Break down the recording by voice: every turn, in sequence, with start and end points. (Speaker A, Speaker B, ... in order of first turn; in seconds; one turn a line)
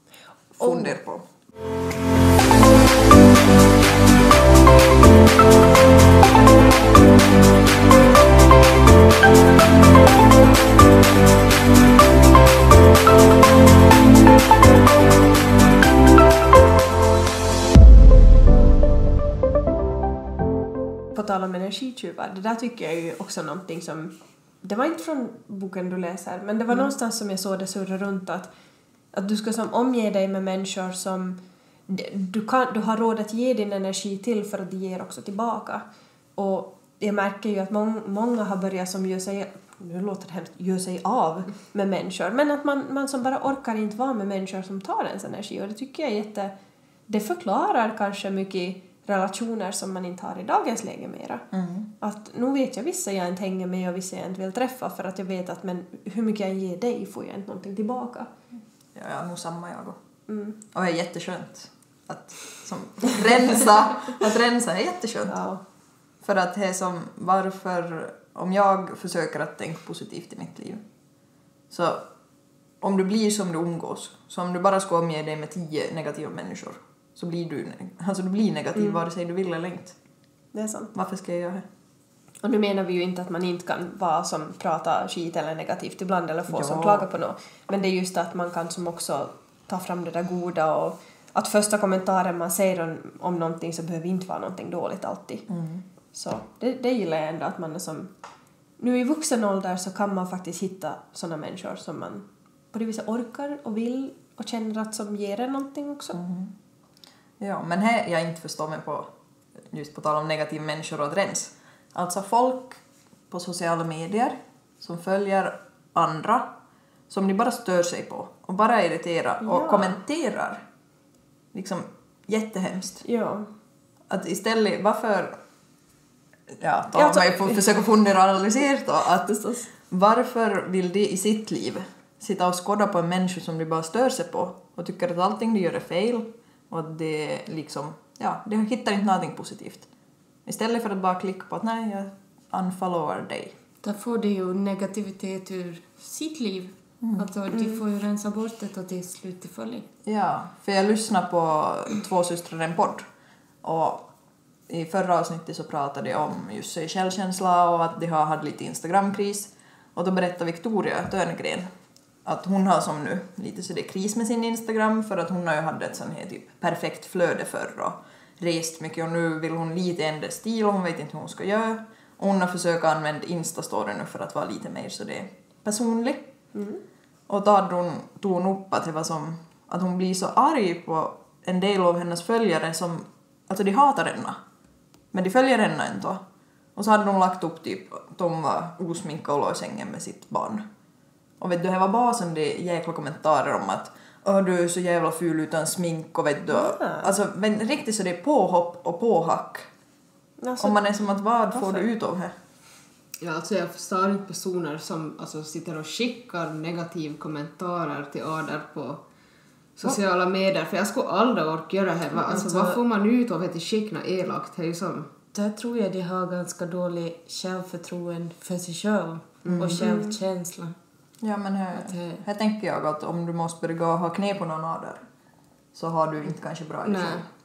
Speaker A: 0.6-1.2
Speaker B: 0.6-0.9
Speaker B: 21.1-28.5
Speaker B: 29.1-35.8
Speaker B: 36.4-46.5
Speaker B: 47.1-51.5
Speaker A: 51.5-51.9
Speaker B: 52.0-58.3
Speaker A: 58.9-60.0
Speaker B: 60.3-60.6
Speaker A: 60.7-65.4
Speaker B: 65.3-65.6
Speaker A: 66.2-70.8
Speaker A: 71.7-72.0
Speaker A: 72.8-79.9
Speaker B: 80.5-80.9
Speaker A: 80.9-81.6
Speaker B: 82.4-95.5
Speaker A: 86.5-87.1
Speaker A: 95.5-95.8
Speaker B: 96.1-98.1
Speaker B: 98.8-106.2
Speaker A: 106.1-106.5
Speaker A: 107.4-109.1
Speaker A: 109.7-116.5
Speaker A: 117.1-120.6
Speaker B: 119.4-120.0
Speaker A: 121.5-123.0
Speaker B: 123.0-123.5
Speaker A: 124.1-125.4
Speaker A: 126.5-139.9
Speaker B: 126.9-127.6
Speaker B: 129.4-129.6
Speaker A: 140.4-143.6
Speaker C: 143.8-149.9
Speaker A: 147.0-147.2
Speaker B: 147.5-147.8
Speaker A: 150.0-153.1
Speaker A: 153.6-154.1
Speaker A: 154.7-161.7
Speaker A: 162.2-176.3
Speaker B: 176.5-176.8
Speaker A: 177.3-184.4
Speaker A: 185.1-186.2
Speaker A: 186.8-190.6
Speaker A: 191.4-199.7
Speaker B: 196.5-197.1
Speaker B: 200.4-200.8
Speaker A: 200.6-202.3
Speaker B: 201.5-201.9
Speaker D: 203.2-209.0
Speaker D: 209.8-215.1
Speaker C: 212.3-212.8
Speaker C: 215.3-220.7
Speaker D: 219.4-219.8
Speaker B: 219.8-220.2
Speaker A: 221.2-225.0
Speaker C: 221.7-222.2
Speaker A: 225.7-227.2
Speaker C: 226.8-227.3